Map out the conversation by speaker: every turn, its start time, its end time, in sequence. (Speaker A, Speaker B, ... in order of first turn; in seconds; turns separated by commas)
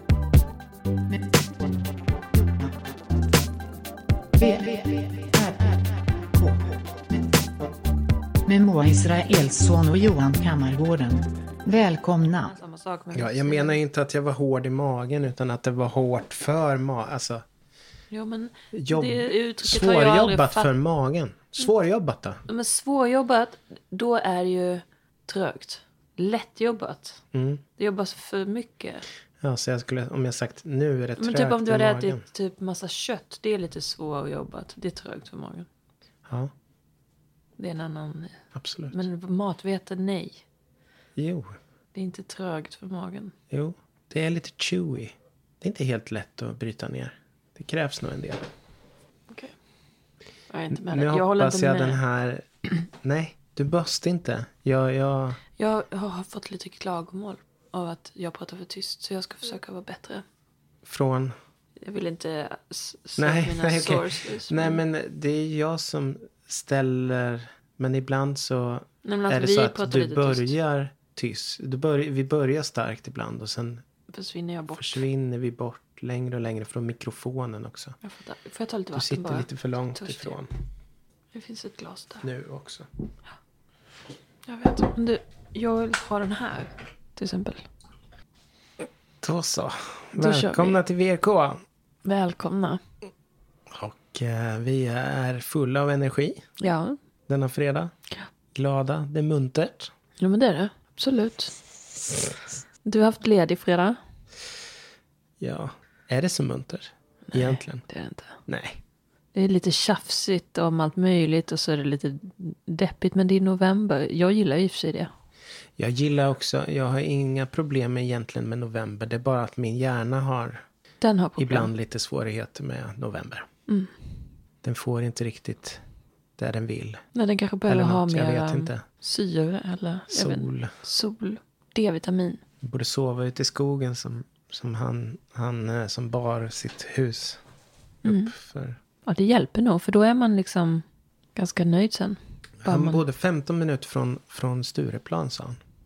Speaker A: 4.3-6.8, Speaker A: 8.5-12.6, Speaker B: 12.3-13.8, Speaker C: 13.1-17.4, Speaker B: 18.1-20.7, Speaker C: 18.7-22.4, Speaker B: 22.5-27.2, Speaker C: 27.3-27.6, Speaker B: 27.8-29.1, Speaker C: 29.4-32.2, Speaker B: 31.2-35.7, Speaker C: 36.3-36.5, Speaker B: 37.6-40.4, Speaker C: 38.5-39.0, Speaker C: 41.2-41.5, Speaker B: 41.9-43.3, Speaker C: 43.5-48.5, Speaker B: 50.5-52.0, Speaker C: 50.7-55.4, Speaker B: 55.6-60.2, Speaker C: 60.8-61.3, Speaker B: 61.8-64.8, Speaker C: 63.2-73.8, Speaker B: 69.0-70.5, Speaker B: 74.1-75.0, Speaker C: 74.7-78.0, Speaker B: 78.0-80.4, Speaker C: 78.9-80.5, Speaker B: 81.3-82.2, Speaker C: 82.2-82.9, Speaker B: 84.5-87.7, Speaker C: 89.2-91.6, Speaker B: 90.2-90.8, Speaker B: 92.0-92.8, Speaker C: 93.7-96.5, Speaker B: 96.6-97.0, Speaker C: 97.3-97.9, Speaker C: 98.5-99.9, Speaker B: 100.2-101.5, Speaker B: 102.8-104.0, Speaker C: 105.4-107.8, Speaker B: 107.3-108.4, Speaker C: 108.5-108.8, Speaker B: 109.3-115.1, Speaker C: 115.8-120.6, Speaker B: 121.0-121.7, Speaker C: 121.4-123.5, Speaker B: 123.7-123.9, Speaker C: 124.6-125.8, Speaker C: 126.4-127.0, Speaker B: 127.1-132.4, Speaker C: 127.7-128.8, Speaker C: 130.1-130.8, Speaker C: 132.6-137.4, Speaker C: 138.0-138.8, Speaker B: 138.1-138.3, Speaker B: 139.1-140.8, Speaker B: 141.4-143.0, Speaker C: 142.6-145.6